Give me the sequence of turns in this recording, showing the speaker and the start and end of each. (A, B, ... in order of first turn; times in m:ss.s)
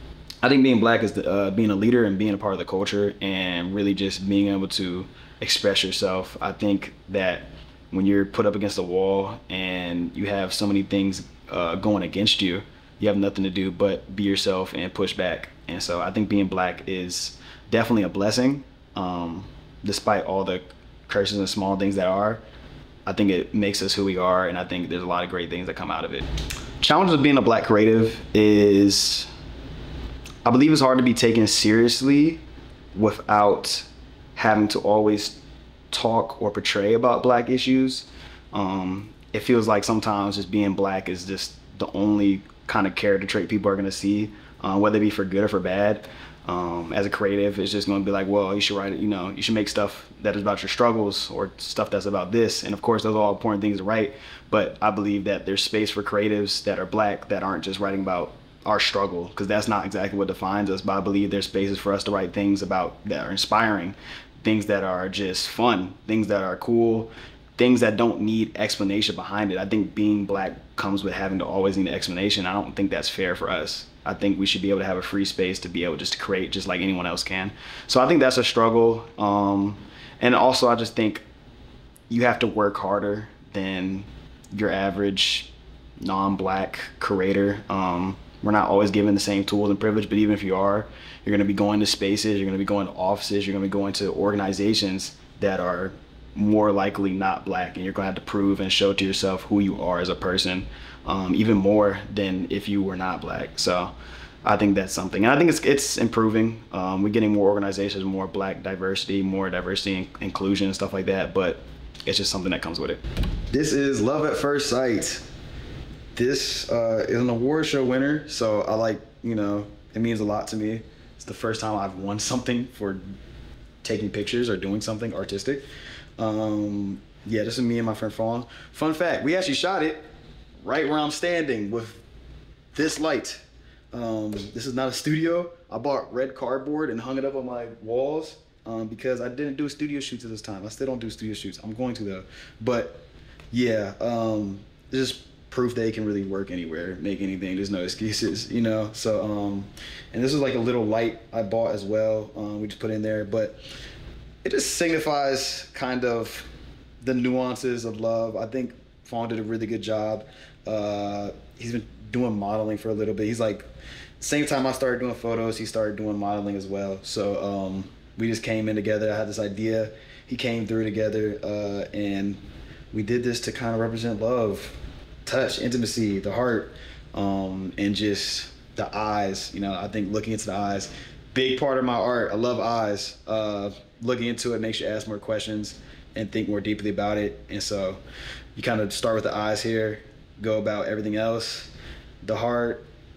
0:00.4-0:22.4 A
0:23.0-0:26.2 A
0:26.8-0:29.3 A
0:30.4-0:32.4 A
0:32.9-0:35.4 A
0:35.9-1:21.2 A
1:22.1-1:55.2 A
1:56.1-2:03.1 A
2:03.8-2:05.6 A
2:06.2-2:12.0 A
2:12.7-2:33.6 A
2:34.4-2:36.5 A
2:37.0-2:43.7 A
2:44.2-3:08.0 A
3:08.6-3:12.9 A